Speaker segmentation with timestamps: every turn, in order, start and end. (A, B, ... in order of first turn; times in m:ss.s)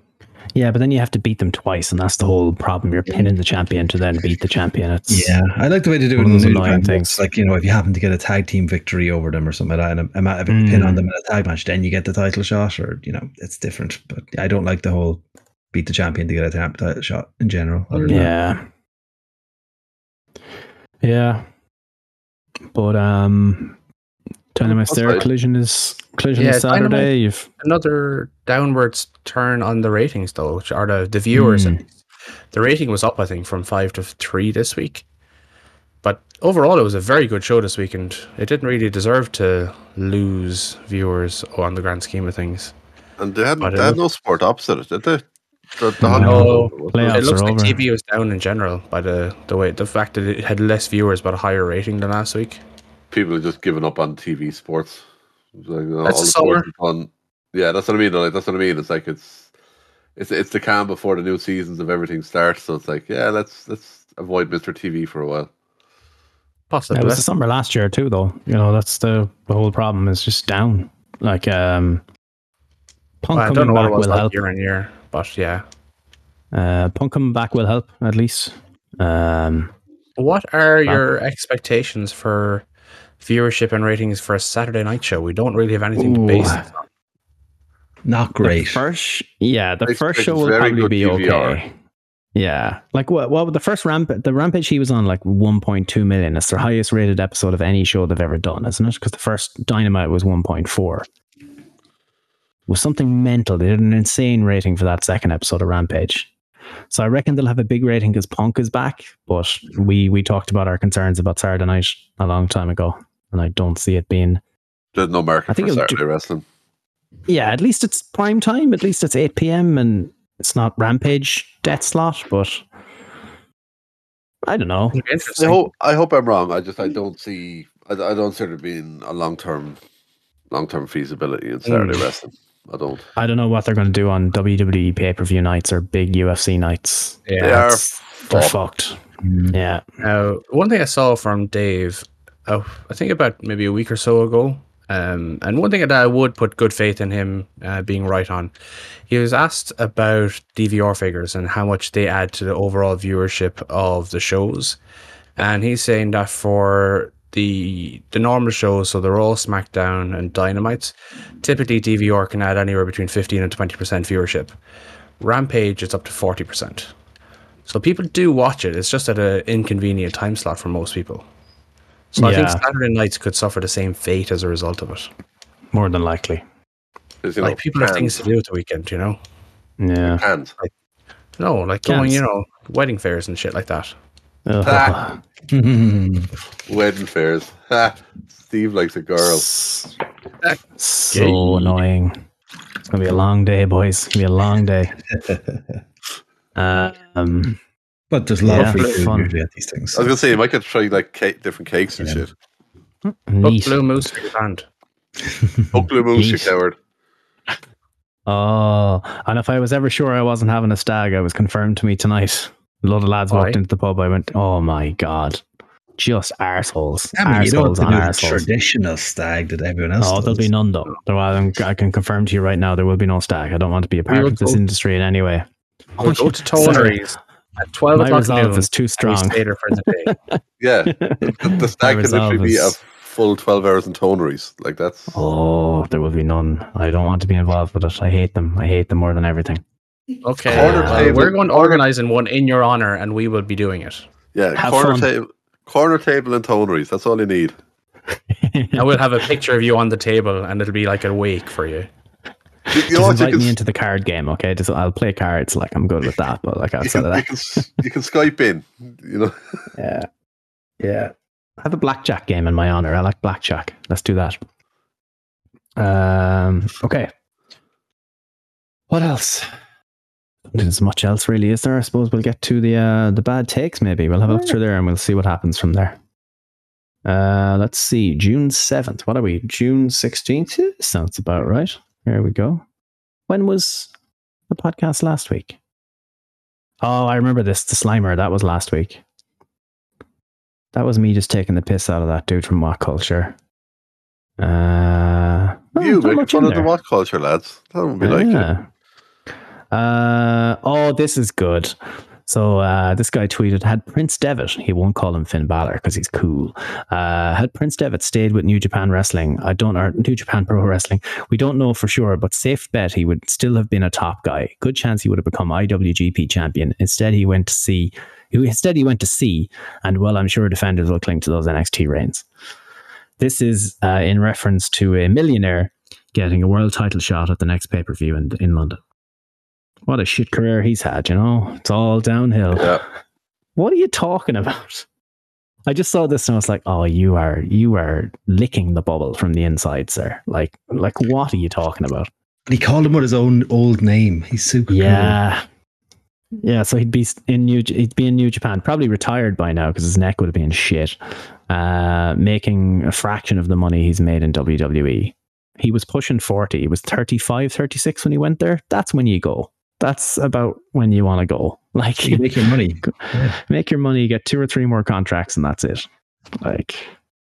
0:00.6-0:05.4 A
0:05.1-0:18.3 B
0:06.2-0:07.2 A
0:10.5-0:11.0 A
0:17.9-0:18.2 C
0:18.1-0:18.6 A
0:21.0-0:21.4 A
0:22.7-0:23.8 A
0:24.6-0:27.5 A
0:24.6-0:25.3 D
0:26.4-0:31.9 C
0:31.3-0:31.8 A
0:32.5-0:35.0 C
0:36.0-0:42.7 C
0:43.2-0:45.2 D
0:43.6-0:44.0 C
0:45.8-0:47.2 D
0:46.0-0:47.8 A
0:46.1-0:52.6 C
0:53.1-0:55.0 D
0:55.6-0:59.5 D
0:56.0-0:56.7 C
1:00.2-1:05.5 D
1:06.7-1:07.3 C
1:06.9-1:12.0 A
1:13.2-1:14.4 A
1:13.3-1:15.6 C
1:16.5-1:19.7 A
1:20.2-1:22.6 C
1:23.2-1:26.8 C
1:26.0-1:26.6 A
1:28.0-1:28.8 B
1:28.4-1:31.7 A
1:29.9-1:31.6 D
1:32.4-1:41.1 A
1:42.7-1:46.3 A
1:46.9-1:54.4 A
1:55.0-1:56.4 D
1:55.5-1:56.0 A
1:57.3-2:02.6 A
2:04.4-2:05.0 A
2:04.9-2:05.6 C
2:05.4-2:09.8 D
2:10.5-2:13.0 D
2:11.6-2:12.1 C
2:13.2-2:19.0 A
2:17.3-2:17.7 C
2:17.4-2:18.6 D
2:19.2-2:19.5 B
2:19.5-2:19.8 A
2:20.0-2:28.5 C
2:29.1-2:34.8 C
2:35.4-2:44.5 C
2:45.2-2:46.9 C
2:47.7-2:51.3 C
2:52.1-2:55.1 C
2:52.2-2:52.6 A
2:55.7-2:56.4 A
2:57.2-2:58.2 D
2:57.4-2:59.2 C
2:59.8-3:00.2 A
3:00.1-3:00.5 D
3:01.4-3:03.9 C
3:01.9-3:02.2 A
3:04.5-3:05.2 A
3:04.6-3:05.0 D
3:05.5-3:06.3 B
3:06.7-3:09.5 D
3:09.2-3:09.9 A
3:10.8-3:12.2 A
3:11.1-3:11.8 C
3:12.9-3:15.0 A
3:15.1-3:15.6 B
3:16.6-3:17.6 A
3:18.1-3:20.2 B
3:18.5-3:19.3 A
3:18.6-3:19.0 C
3:19.9-3:22.3 D
3:22.0-3:22.3 B
3:23.0-3:23.8 A
3:23.4-3:24.7 C
3:25.2-3:25.9 B
3:25.7-3:26.8 D
3:26.1-3:26.5 A
3:28.3-3:35.4 A
3:33.3-3:33.6 C
3:36.0-3:38.5 A
3:37.2-3:40.5 B
3:40.0-3:45.5 A
3:44.1-3:44.6 C
3:46.0-3:50.2 C
3:46.0-3:47.0 A
3:47.9-3:49.4 A
3:50.1-3:52.8 A
3:50.6-3:55.2 D
3:55.1-3:59.6 A
4:00.2-4:04.1 C
4:00.5-4:01.2 A
4:00.5-4:01.8 D
4:04.3-4:07.6 D
4:04.6-4:05.1 A
4:08.3-4:08.8 A
4:08.8-4:11.9 C
4:12.7-4:17.6 A
4:12.7-4:13.6 D
4:16.8-4:19.7 D
4:19.8-4:20.1 A
4:20.8-4:24.4 A
4:25.8-4:27.1 A
4:28.9-4:29.6 A
4:30.5-4:36.0 A
4:37.0-4:42.6 A
4:43.3-4:43.9 A
4:44.5-4:45.6 A
4:46.8-4:49.0 A
4:50.7-4:53.4 A
4:54.4-4:56.7 A
4:55.8-4:58.5 D
4:58.0-4:58.7 A
4:59.7-5:01.8 A
5:02.3-5:22.2 A
5:23.2-5:28.8 A
5:29.9-5:32.8 A
5:32.5-5:32.8 D
5:33.6-5:34.9 A
5:35.7-5:42.1 A
5:42.5-5:45.2 B
5:44.7-5:45.4 A
5:46.4-5:51.0 A
5:51.5-6:02.3 A
6:02.0-6:03.4 B
6:02.8-6:05.9 A
6:06.4-6:06.9 A